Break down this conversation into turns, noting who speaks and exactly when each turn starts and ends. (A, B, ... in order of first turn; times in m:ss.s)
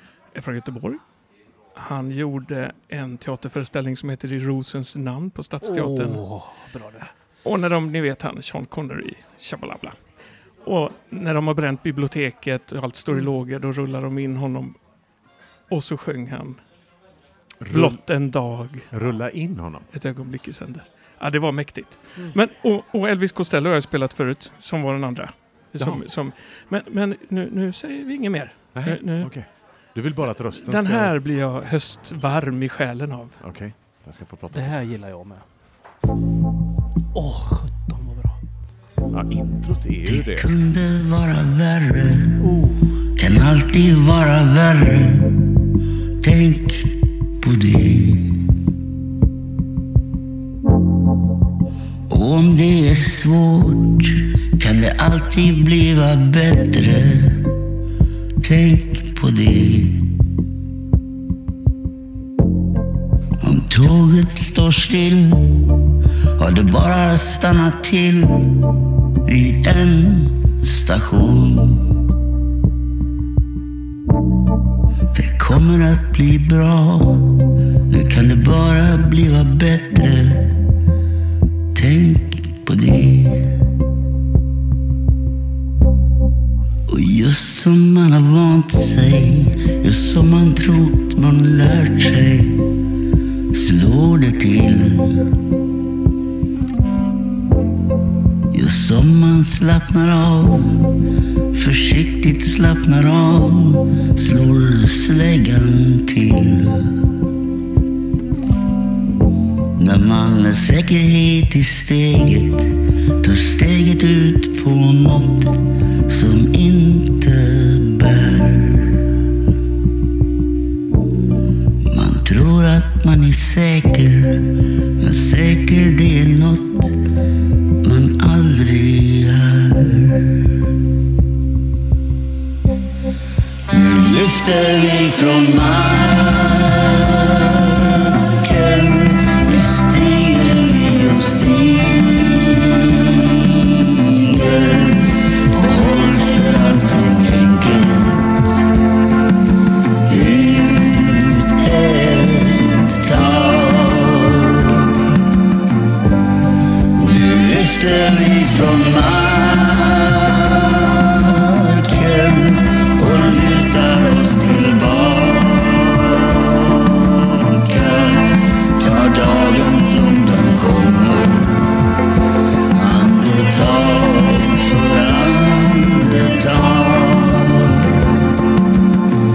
0:00.3-0:01.0 A
0:01.8-0:06.2 A
0:05.6-0:07.1 B
0:07.4-0:10.0 A
0:10.6-0:14.8 A
0:15.7-0:16.6 A
0:17.6-0:18.0 C
0:17.7-0:18.9 A
0:18.9-0:19.8 C
0:19.9-0:29.3 A
0:28.7-0:31.1 C
0:30.6-0:33.4 A
0:33.4-0:34.8 C
0:34.5-0:35.4 B
0:37.1-0:38.4 B
0:39.1-0:40.5 C
0:40.0-0:42.4 D
0:42.4-0:42.9 B
0:43.2-0:45.5 D
0:46.2-0:48.4 D
0:52.1-0:57.5 D
0:58.4-1:00.0 D
1:03.4-1:05.6 D
1:06.4-1:08.6 D
1:09.2-1:11.9 D
1:15.1-1:20.6 D
1:21.7-1:23.5 D
1:26.9-1:32.6 D
1:33.5-1:35.3 D
1:38.5-1:40.8 D
1:41.5-1:47.0 D
1:49.8-1:59.0 D
2:01.9-2:04.5 D
2:05.0-2:06.9 D
2:07.8-2:10.5 D
2:13.7-2:28.7 D
2:30.0-2:34.9 D
2:37.0-2:51.8 D
2:52.7-2:58.2 D